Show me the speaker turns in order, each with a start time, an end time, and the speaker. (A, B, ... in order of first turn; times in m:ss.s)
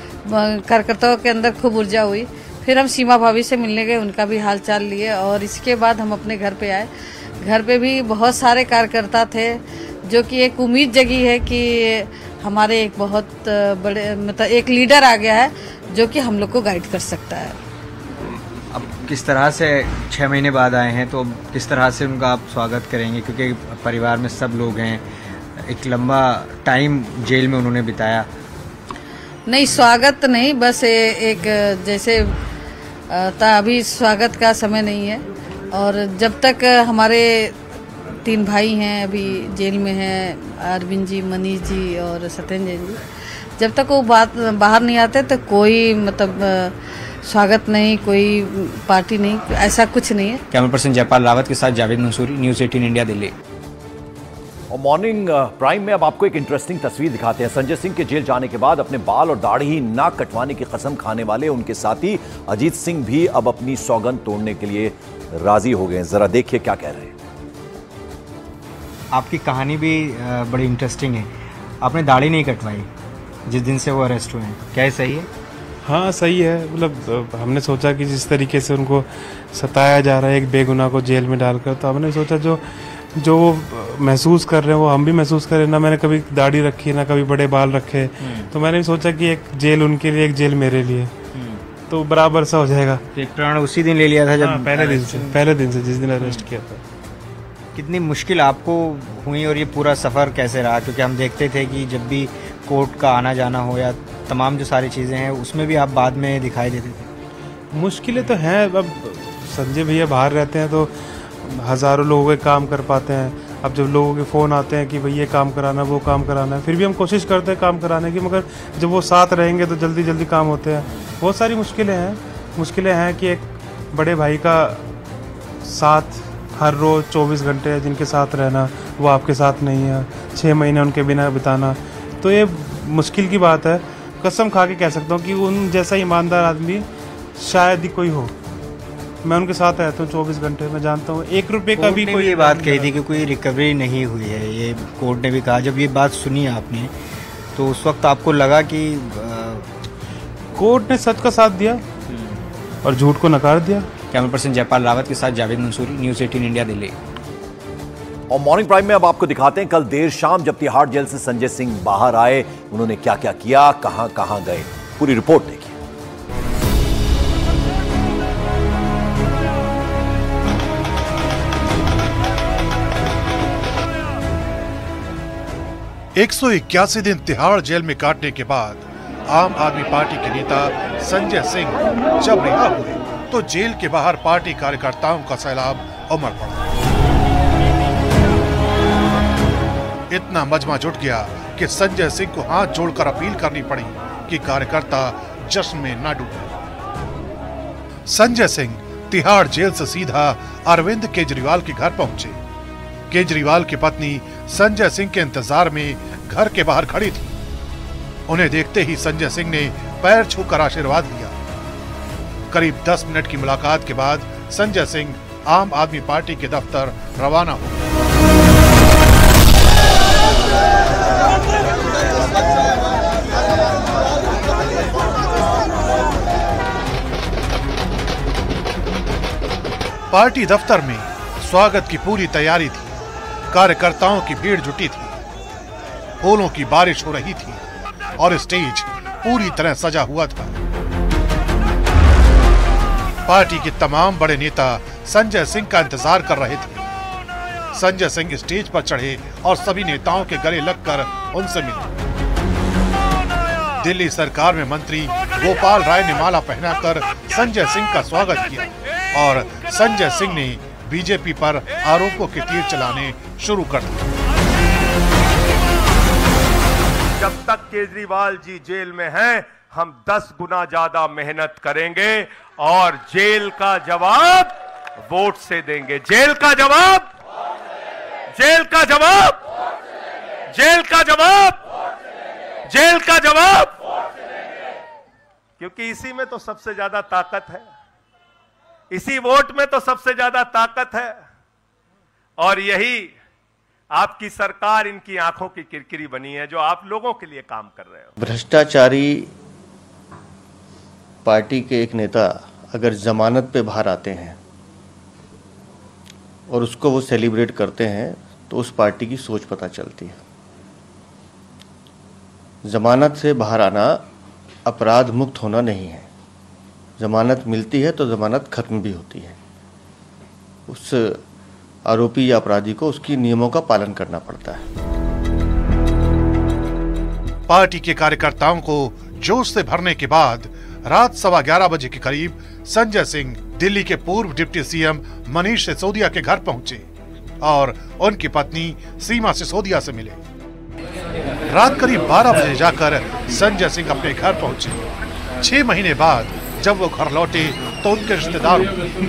0:00.2-0:06.9 A
0:07.4-0:17.6 A
0:18.7-0:25.0 B
0:25.6-0:28.3 B
0:29.5-0:32.3 A
0:33.1-0:35.2 A
0:35.7-0:37.5 A
0:38.2-0:43.0 A
0:43.6-0:50.4 A
0:50.5-0:53.3 B
0:54.7-1:07.1 C
1:09.1-1:11.3 B
1:11.8-1:12.9 B
1:13.4-1:15.3 B
1:15.8-1:22.6 D
1:23.2-1:31.1 D
1:28.2-1:28.5 B
1:31.3-1:31.6 B
1:31.8-1:33.0 D
1:33.1-1:35.4 B
1:34.4-1:36.8 D
1:36.2-1:36.4 B
1:37.7-1:47.1 B
1:47.7-1:50.9 D
1:51.4-2:04.8 D
2:05.6-2:18.3 D
2:19.2-2:23.0 D
2:21.7-2:26.9 B
2:27.5-2:29.7 B
2:30.6-2:31.8 D
2:32.8-2:33.9 D
2:34.1-2:36.9 B
2:38.3-2:45.8 C
2:56.1-3:06.6 E
3:10.1-3:16.5 E
3:18.1-3:22.4 E
3:23.1-3:27.3 E
3:28.3-3:31.3 E
3:32.5-3:37.8 E
3:50.1-3:53.0 E
3:53.5-3:55.2 E
3:56.2-3:57.6 E
3:58.2-4:00.6 E
4:03.3-4:06.8 E
4:07.7-4:11.9 E
4:13.8-4:24.1 E
4:27.2-4:37.1 F
4:38.3-4:39.4 F
4:40.5-4:41.6 F
4:42.7-4:43.8 F
4:45.6-4:47.7 F
4:48.9-4:51.2 F
4:52.4-4:53.2 F
4:53.9-4:58.1 F
4:58.2-4:59.3 G
5:01.2-5:04.4 G
5:06.5-5:10.2 G
5:12.6-5:14.0 G
5:14.6-5:16.1 G
5:17.0-5:19.4 G
5:20.7-5:21.2 G
5:21.8-5:24.6 G
5:27.5-5:36.8 E
5:37.4-5:40.2 E
5:41.5-5:44.8 E
5:45.4-5:48.7 E